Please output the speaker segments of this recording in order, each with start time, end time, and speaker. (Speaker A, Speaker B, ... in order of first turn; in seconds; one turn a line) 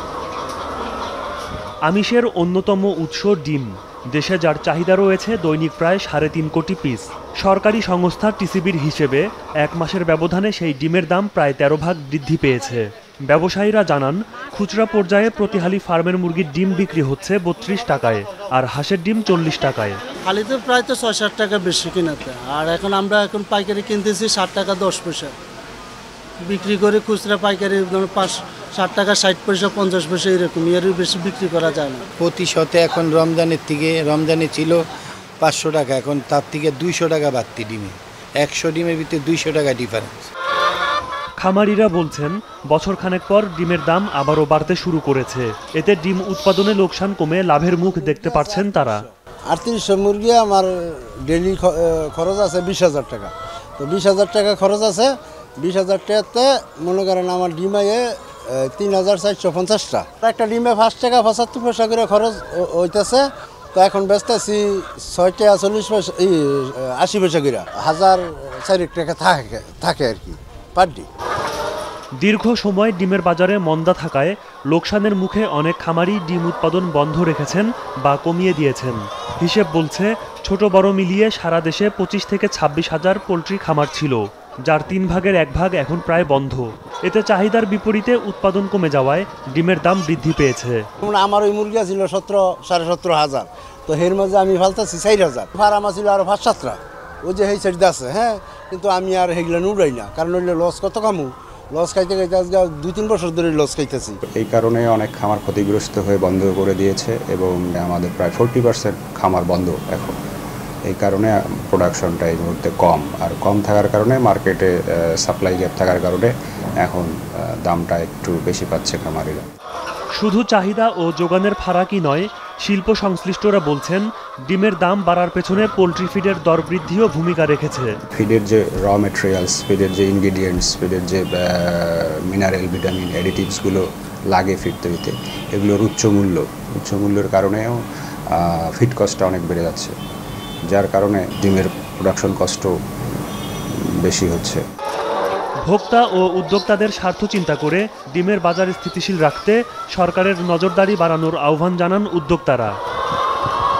Speaker A: 1.9-20.0
Speaker B: 20.2-25.4
Speaker B: 26.4-32.1
Speaker C: 32.2-34.8
Speaker C: 35.4-40.3
Speaker A: 41.4-49.0
Speaker D: 48.0-71.1
Speaker A: 72.2-90.8
Speaker D: 91.0-104.2
Speaker E: 104.3-110.1
Speaker E: 110.9-119.5
Speaker A: 120.2-128.0
Speaker E: 128.2-137.8
Speaker E: 138.3-139.9
Speaker E: 140.7-142.7
Speaker E: 144.0-144.6
Speaker A: 145.6-152.8